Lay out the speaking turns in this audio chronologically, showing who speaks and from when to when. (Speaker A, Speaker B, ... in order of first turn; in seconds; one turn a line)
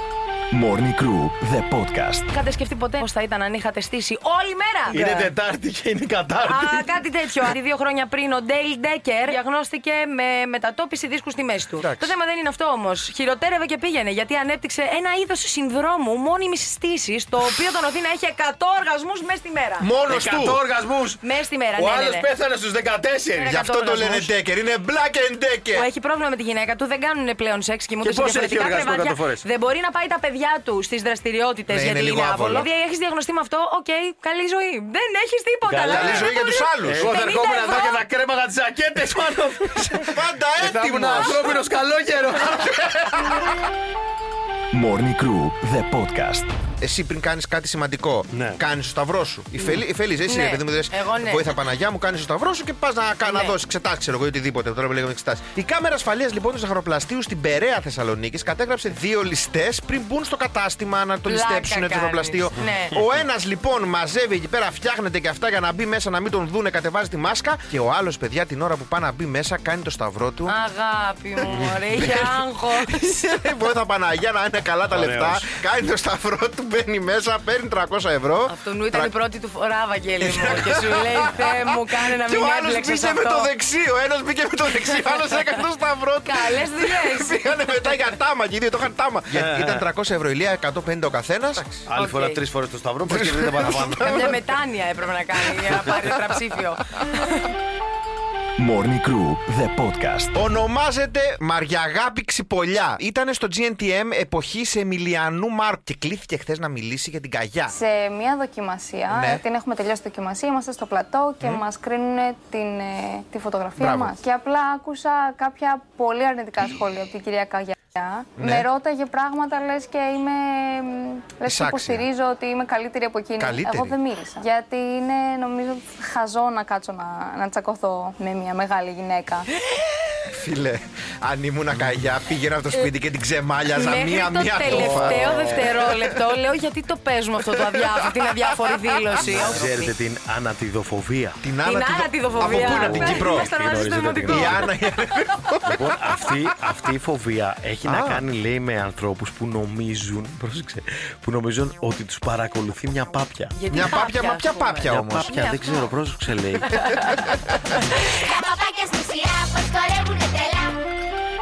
Speaker A: 0.5-2.2
Speaker B: 2.3-5.3
Speaker C: 4.9-6.9
Speaker B: 6.4-19.9
Speaker D: 11.8-12.1
Speaker D: 19.8-20.6
Speaker C: 20.1-21.2
Speaker B: 21.2-22.3
Speaker C: 21.8-23.5
Speaker B: 23.4-24.3
Speaker D: 23.4-25.9
Speaker B: 25.7-38.0
Speaker C: 28.0-29.5
Speaker D: 31.7-32.7
Speaker C: 35.7-43.1
Speaker D: 35.9-37.1
Speaker D: 39.8-41.6
Speaker A: 44.7-46.5
Speaker D: 46.8-70.5
Speaker C: 48.3-48.6
Speaker B: 50.3-51.5
Speaker B: 53.2-53.6
Speaker B: 61.3-63.0
Speaker B: 70.5-73.0
Speaker D: 71.5-79.1
Speaker C: 74.9-75.5
Speaker B: 78.5-83.5
Speaker D: 80.2-81.6
Speaker D: 82.2-91.8
Speaker B: 86.2-87.5
Speaker C: 89.3-89.9
Speaker C: 91.9-94.3
Speaker B: 91.9-92.4
Speaker D: 93.1-94.4
Speaker B: 93.8-97.4
Speaker A: 98.6-100.3
Speaker D: 100.3-107.7
Speaker E: 107.7-129.4
Speaker D: 109.1-109.4
Speaker D: 113.8-114.2
Speaker D: 118.4-118.7
Speaker D: 121.5-122.0
Speaker D: 123.4-124.0
Speaker D: 130.3-135.8
Speaker B: 133.7-139.9
Speaker C: 134.7-135.7
Speaker C: 139.2-141.4
Speaker D: 141.4-143.5
Speaker B: 141.6-144.7
Speaker C: 142.4-144.7
Speaker D: 144.3-145.9
Speaker C: 145.7-154.0
Speaker D: 147.8-148.2
Speaker B: 153.6-155.9
Speaker D: 153.7-155.4
Speaker C: 154.9-156.7
Speaker D: 156.9-157.5
Speaker F: 158.2-160.7